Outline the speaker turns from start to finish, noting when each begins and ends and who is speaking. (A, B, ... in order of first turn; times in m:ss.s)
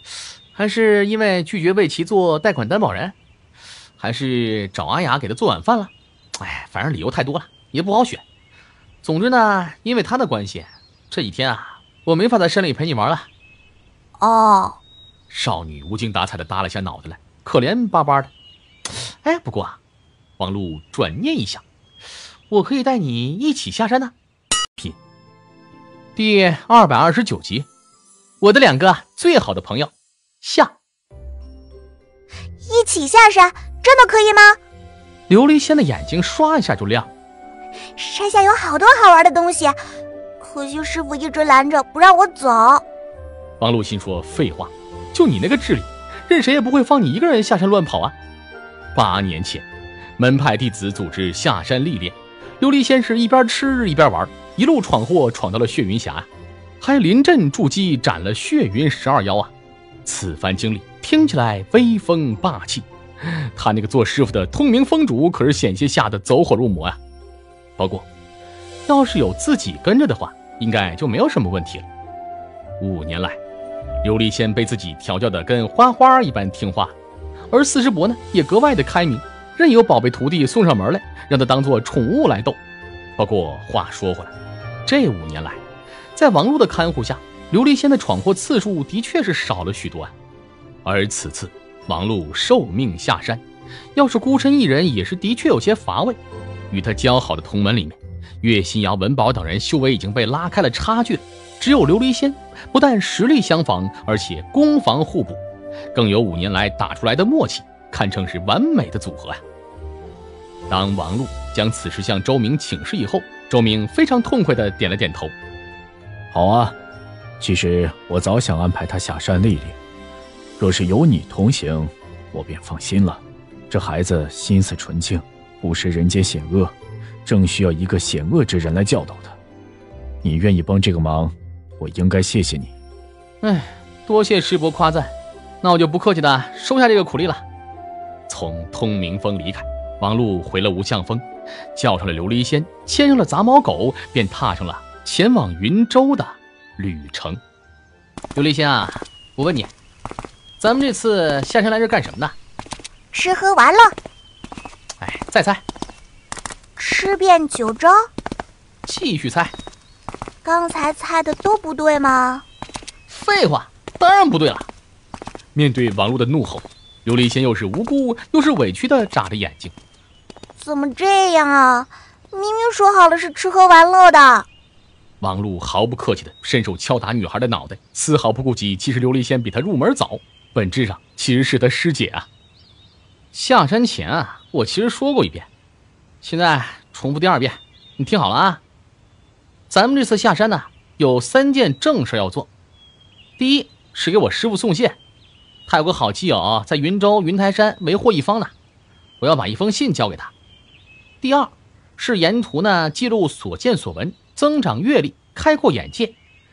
0:00.5-0:03.2 A
0:04.0-0:08.2 A
0:09.0-0:13.3 A
0:14.2-0:14.8 B
0:15.3-0:18.3 A
0:18.9-0:19.8 A
0:20.4-0:21.6 A
0:22.5-0:24.1 A
0:26.2-0:27.7 A
0:28.4-0:30.7 A
0:32.6-0:34.6 B
0:35.3-0:37.1 A
0:38.0-0:39.8 B
0:40.4-0:42.8 B
0:43.6-0:48.1 A
0:48.9-0:49.7 A
0:50.2-0:56.3 A
0:56.8-0:59.5 A
1:00.0-1:07.0 A
1:07.8-1:08.1 A
1:08.9-1:11.8 A
1:12.8-1:13.4 A
1:14.0-1:16.9 A
1:17.5-1:22.6 A
1:23.2-1:24.3 A
1:24.8-1:25.6 A
1:26.2-1:30.1 A
1:30.8-1:33.4 A
1:34.0-1:45.4 A
1:45.9-1:49.4 A
1:50.7-1:55.3 A
1:56.3-1:56.8 C
1:57.4-1:59.8 C
2:00.6-2:09.4 C
2:10.2-2:12.7 C
2:13.4-2:17.4 A
2:18.3-2:27.4 A
2:28.3-2:29.7 A
2:30.6-2:32.4 A
2:33.1-2:33.9 B
2:35.0-2:35.6 A
2:36.8-2:38.1 B
2:38.8-2:39.5 A
2:40.4-2:42.4 B
2:43.1-2:44.7 A
2:45.5-2:49.7 A
2:50.6-2:54.5 B
2:55.2-3:02.3 A
3:03.3-3:05.5 A
3:06.2-3:08.6 A
3:09.7-3:12.5 A
3:13.4-3:15.0 A
3:15.7-3:18.5 A
3:19.2-3:20.3 A
3:21.2-3:26.2 A